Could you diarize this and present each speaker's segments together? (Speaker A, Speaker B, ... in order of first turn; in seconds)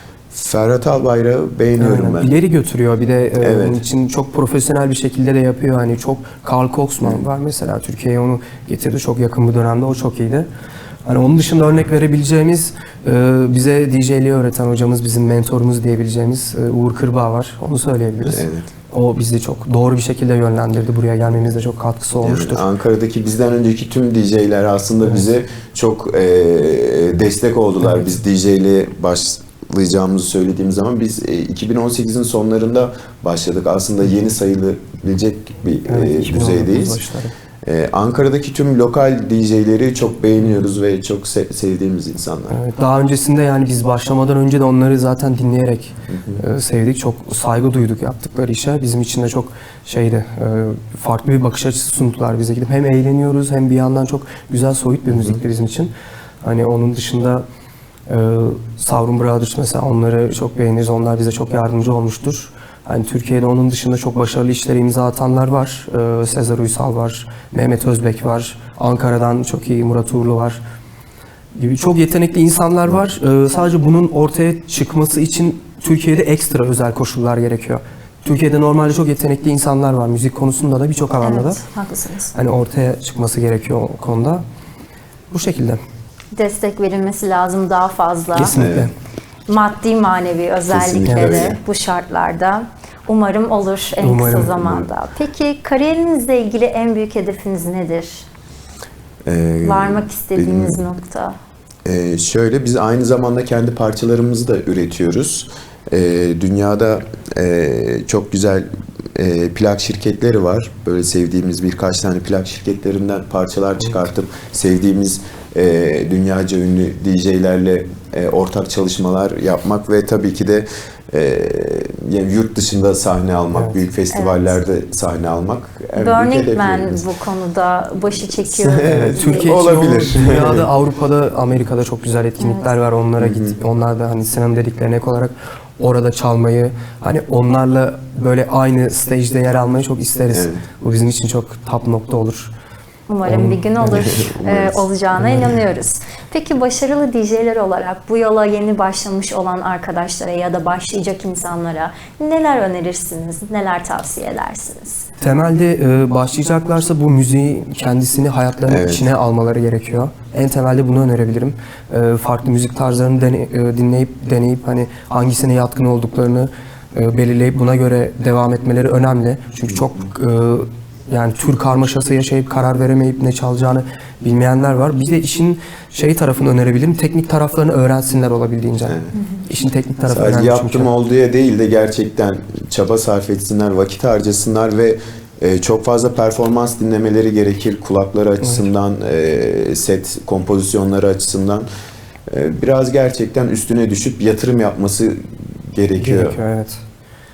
Speaker A: 0.3-2.4, 3.4-3.8, 18.2-18.7, 22.2-37.0, 37.6-42.6, 46.1-46.4, 55.1-55.4, 88.5-88.9, 90.7-91.6, 94.6-94.9, 99.3-100.8, 101.8-127.0, 128.5-130.7, 133.2-133.6, 140.3-140.6, 143.9-144.8, 158.7-159.1, 169.7-169.9, 178.9-179.1, 180.1-191.7, 192.3-196.4
Speaker B: 1.8-10.5, 11.1-22.6, 35.9-37.3, 42.5-55.9, 56.4-57.4, 58.1-70.6, 71.5-81.6, 82.3-84.4, 85.3-85.8, 88.3-88.9, 91.0-91.4, 94.0-94.5, 123.5-123.8, 128.8-142.5, 143.2-144.1, 145.2-145.5, 155.2-180.9, 188.4-188.7, 195.9-196.8
Speaker C: 81.2-82.3, 86.3-88.6, 89.5-98.3, 99.6-101.3, 124.1-124.5, 126.0-129.7, 143.1-155.1